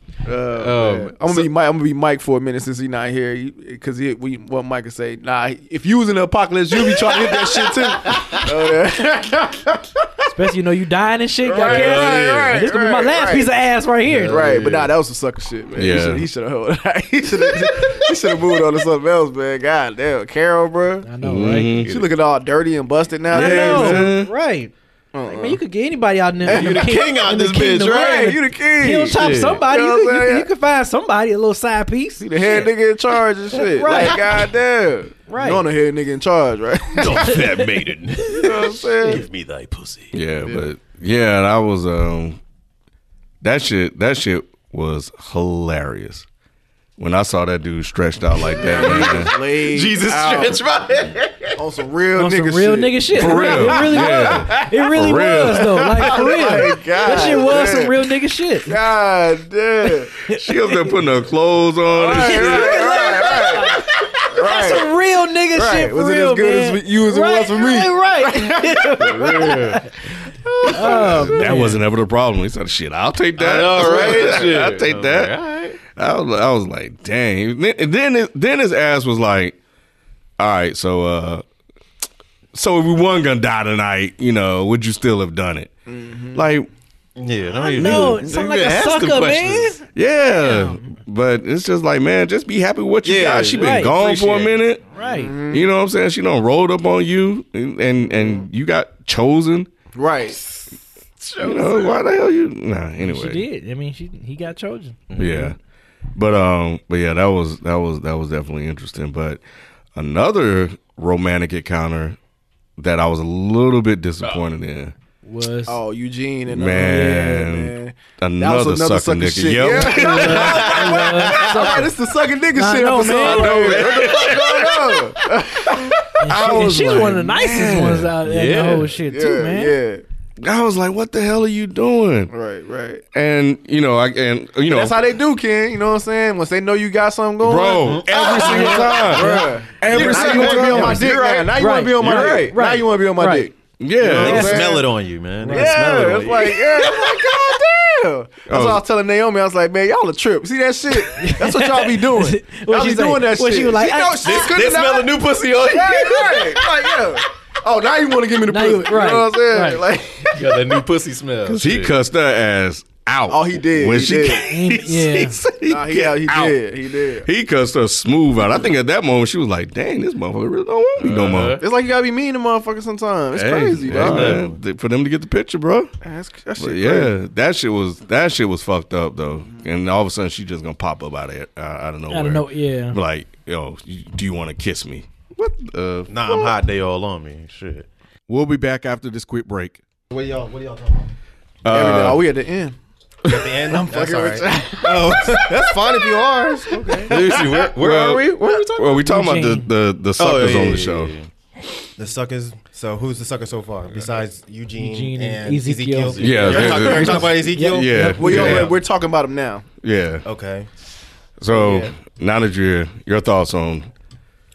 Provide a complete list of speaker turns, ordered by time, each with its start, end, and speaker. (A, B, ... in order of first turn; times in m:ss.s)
0:00.2-0:10.1 A
0:00.5-0:01.5 B
0:06.9-0:08.4 B
0:10.3-0:14.4 C
0:11.4-0:13.5 A
0:11.6-0:12.6 B
0:14.1-0:14.9 B
0:14.2-0:21.1 A
0:15.7-0:16.2 D
0:21.0-0:21.8 C
0:21.2-0:22.0 D
0:21.8-0:24.1 A
0:23.3-0:24.3 D
0:23.3-0:24.7 C
0:25.1-0:25.6 A
0:25.2-0:32.2 C
0:26.4-0:27.3 A
0:26.5-0:28.2 B
0:28.0-0:30.5 A
0:29.0-0:29.6 B
0:32.2-0:37.4 A
0:33.7-0:34.2 C
0:33.8-0:34.2 B
0:35.3-0:35.6 C
0:37.0-0:40.2 B
0:37.2-0:37.6 C
0:38.4-0:39.3 A
0:40.1-0:42.4 D
0:43.4-0:46.2 D
0:47.0-0:49.3 D
0:48.5-0:51.6 B
0:48.6-0:50.6 A
0:51.6-0:53.7 A
0:52.2-0:58.7 C
0:53.1-0:55.7 D
0:53.6-0:54.8 B
0:55.8-0:57.4 B
0:56.0-0:58.0 A
0:58.7-1:00.1 A
1:00.3-1:00.8 C
1:00.3-1:03.2 D
1:01.9-1:04.9 A
1:02.1-1:09.9 C
1:05.5-1:09.5 A
1:09.0-1:09.9 B
1:10.5-1:11.3 B
1:10.6-1:11.3 A
1:10.7-1:11.8 C
1:10.8-1:19.6 D
1:13.4-1:15.8 B
1:14.1-1:14.4 A
1:20.4-1:21.4 D
1:22.5-1:25.7 D
1:25.9-1:26.4 A
1:26.3-1:26.7 D
1:27.2-1:29.7 B
1:27.5-1:30.9 C
1:29.9-1:34.8 D
1:33.0-1:34.6 B
1:33.6-1:33.9 C
1:34.9-1:35.3 C
1:35.0-1:35.6 A
1:35.5-1:39.7 D
1:38.1-1:38.4 A
1:39.9-1:40.4 A
1:41.2-1:42.0 B
1:41.4-1:43.4 D
1:43.0-1:45.4 C
1:45.1-1:45.5 B
1:45.2-1:45.6 D
1:46.1-1:49.4 D
1:50.0-1:52.2 D
1:52.8-1:54.9 D
1:55.2-1:55.8 C
1:55.7-2:06.0 A
1:56.5-2:00.8 D
1:56.8-1:57.4 C
1:59.9-2:01.9 C
2:00.0-2:01.7 B
2:02.5-2:03.7 C
2:03.2-2:05.1 B
2:03.5-2:04.4 D
2:06.2-2:09.8 C
2:06.3-2:08.1 D
2:08.2-2:08.9 B
2:09.0-2:10.0 A
2:10.4-2:12.3 D
2:12.3-2:13.0 A
2:13.1-2:15.0 D
2:14.7-2:24.9 A
2:17.4-2:21.0 D
2:17.8-2:21.5 B
2:18.4-2:19.4 C
2:19.9-2:21.5 E
2:21.6-2:23.5 C
2:22.0-2:22.6 B
2:23.8-2:24.6 D
2:24.0-2:27.3 B
2:24.2-2:24.6 C
2:25.4-2:25.8 C
2:25.5-2:40.8 A
2:28.5-2:28.8 D
2:31.2-2:34.5 C
2:34.2-2:36.7 B
2:38.5-2:39.8 C
2:40.3-2:42.0 B
2:41.5-2:46.6 D
2:43.3-2:44.4 A
2:44.4-2:45.4 C
2:45.6-2:47.3 A
2:47.2-2:51.6 D
2:51.0-2:51.6 B
2:51.6-2:54.4 A
2:53.3-2:54.6 B
2:53.7-2:55.9 D
2:56.0-2:57.1 A
2:56.6-3:06.3 D
3:02.1-3:03.0 C
3:06.0-3:07.9 B
3:08.3-3:09.8 D
3:10.1-3:11.1 E
3:11.6-3:12.2 D
3:11.7-3:12.8 A
3:13.2-3:17.2 E
3:13.7-3:17.6 A
3:17.1-3:19.1 B
3:17.8-3:21.1 D
3:19.0-3:19.7 C
3:20.2-3:21.3 B
3:22.0-3:28.7 E
3:24.8-3:28.5 C
3:26.1-3:27.0 B
3:26.2-3:28.7 D
3:28.2-3:29.6 A
3:29.8-3:30.2 D
3:30.2-3:30.7 E
3:31.4-3:33.9 D
3:31.5-3:31.9 A